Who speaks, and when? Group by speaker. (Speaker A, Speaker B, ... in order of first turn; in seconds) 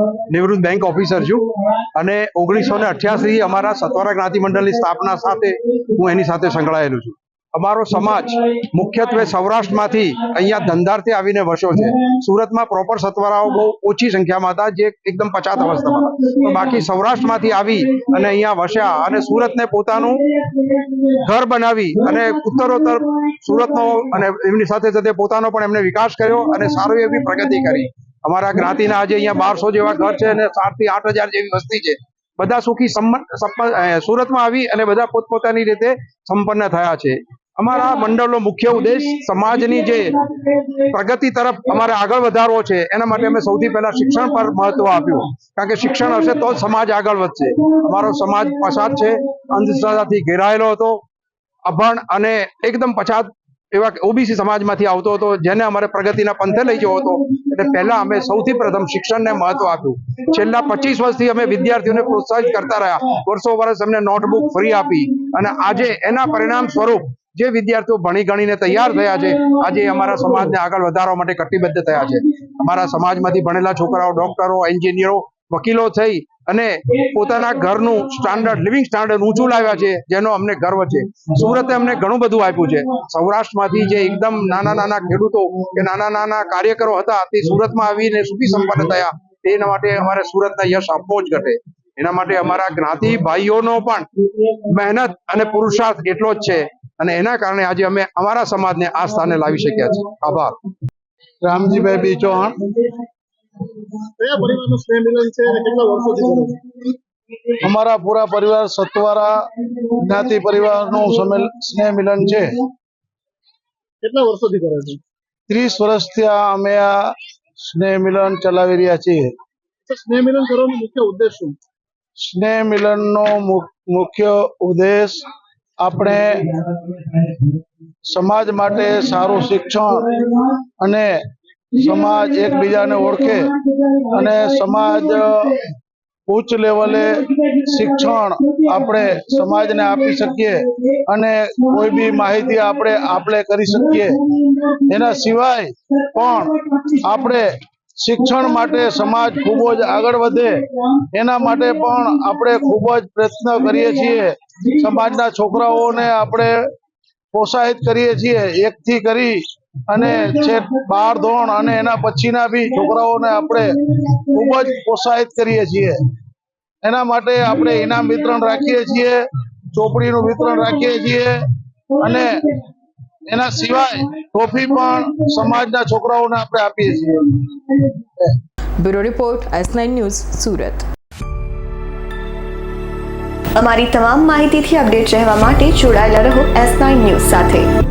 Speaker A: 0.3-20.2, 21.0-51.0, 51.7-94.1, 94.6-100.6
Speaker B: 101.4-102.7, 107.6-112.6, 115.5-117.0, 117.6-119.3, 122.2-125.2, 125.8-126.6, 128.1-130.2, 130.8-131.2, 131.8-133.5, 134.1-135.6, 136.3-144.2, 144.9-147.5, 148.0-156.6, 157.3-166.0, 166.8-171.4, 172.0-172.5, 173.3-177.4
Speaker C: 104.2-106.6, 114.0-115.0, 119.9-121.5, 184.0-185.1, 185.7-187.7
Speaker D: 178.8-180.8
Speaker E: 183.6-187.6